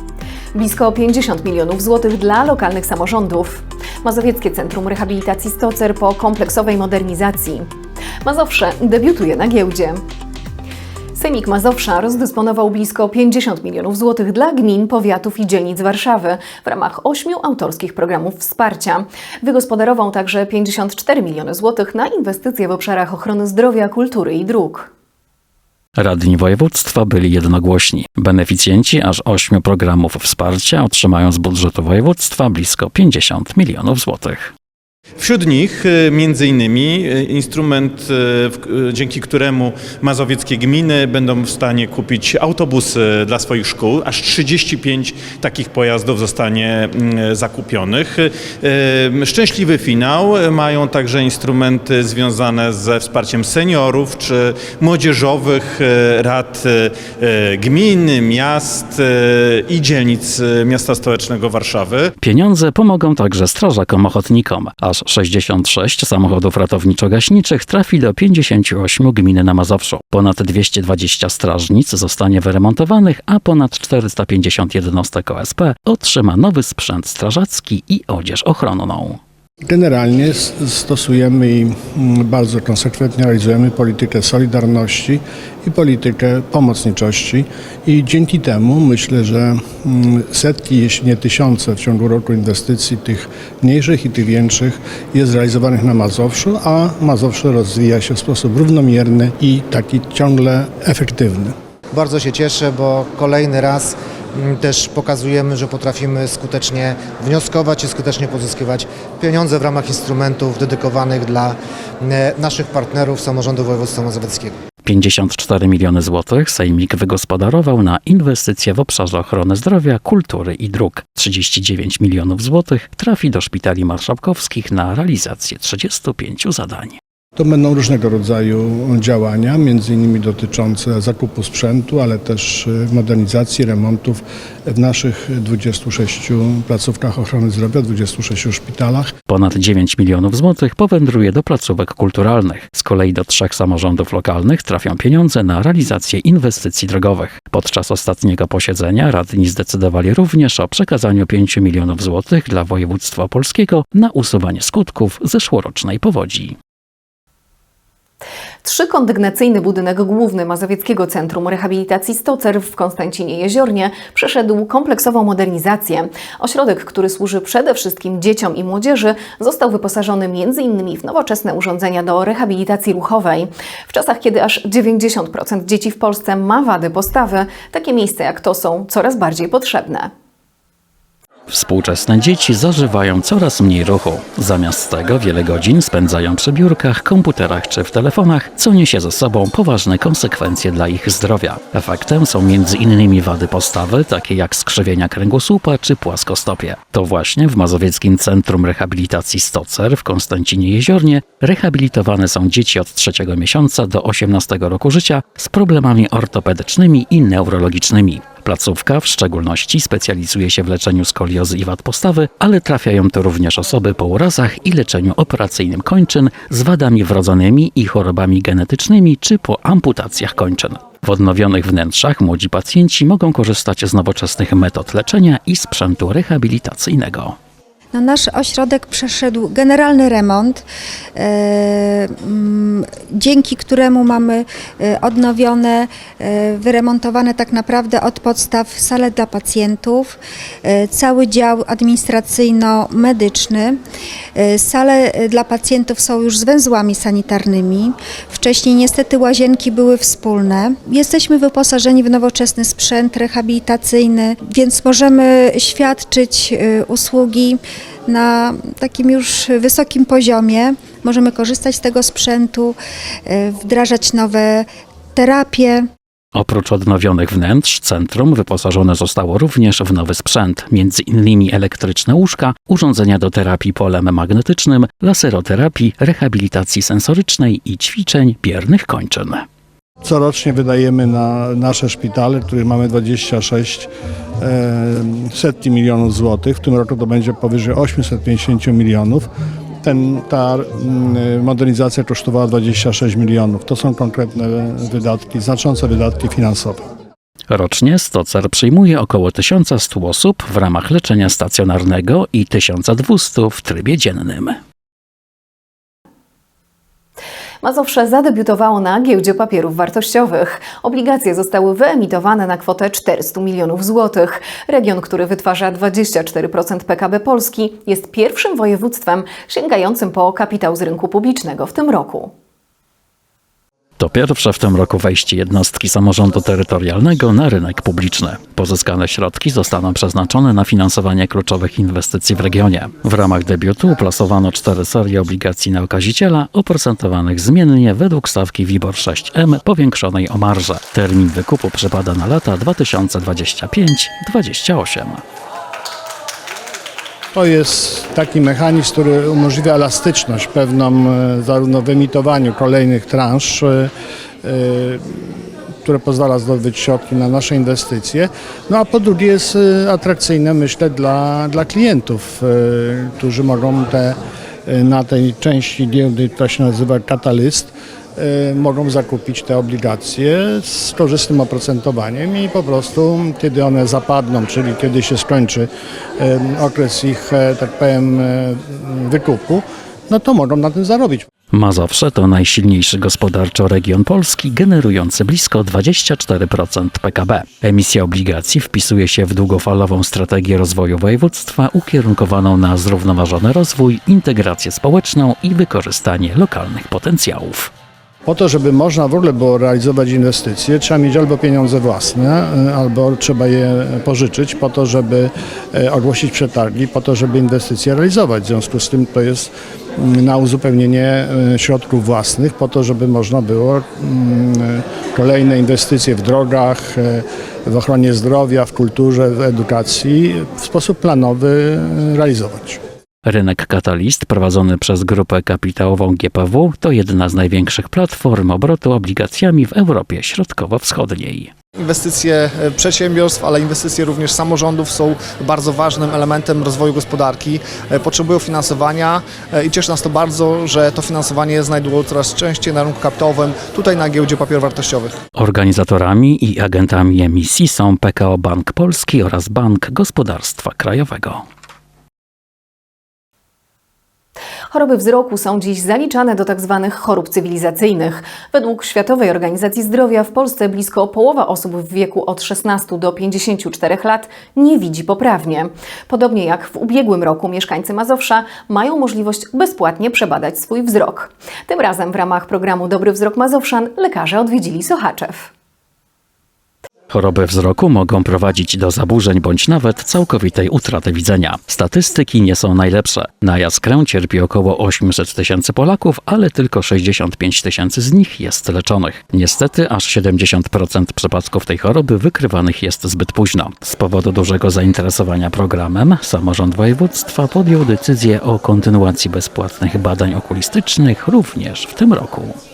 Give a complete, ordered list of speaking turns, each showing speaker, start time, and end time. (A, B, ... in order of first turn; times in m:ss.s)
0:00.5-0:07.7 A
0:08.2-0:10.0 A
0:11.2-0:24.9 A
0:26.0-0:34.5 B
0:35.2-1:02.1 C
1:02.2-1:19.2 B
1:19.6-1:41.5 D
1:41.9-1:54.6 E
1:54.8-2:07.0 B
2:07.4-2:19.1 D
2:19.3-2:36.6 B
2:38.6-3:00.1 A
3:01.5-3:47.4 B
3:47.9-3:50.6 F
3:51.2-4:03.8 F
4:04.4-4:22.8 F
4:23.3-4:25.8 F
4:26.3-4:39.4 B
4:40.0-4:49.3 D
4:49.8-4:56.8 D
4:57.5-5:04.6 B
5:07.6-5:22.3 A
5:24.0-5:45.2 B
5:47.3-5:53.9 D
5:54.4-5:55.0 D
5:55.8-6:21.3 D
6:21.5-6:37.7 B
6:38.2-7:02.8 D
7:03.2-7:11.5 B
7:11.8-7:25.1 G
7:25.4-7:31.4 B
7:34.7-7:55.5 A
7:57.1-8:22.5 B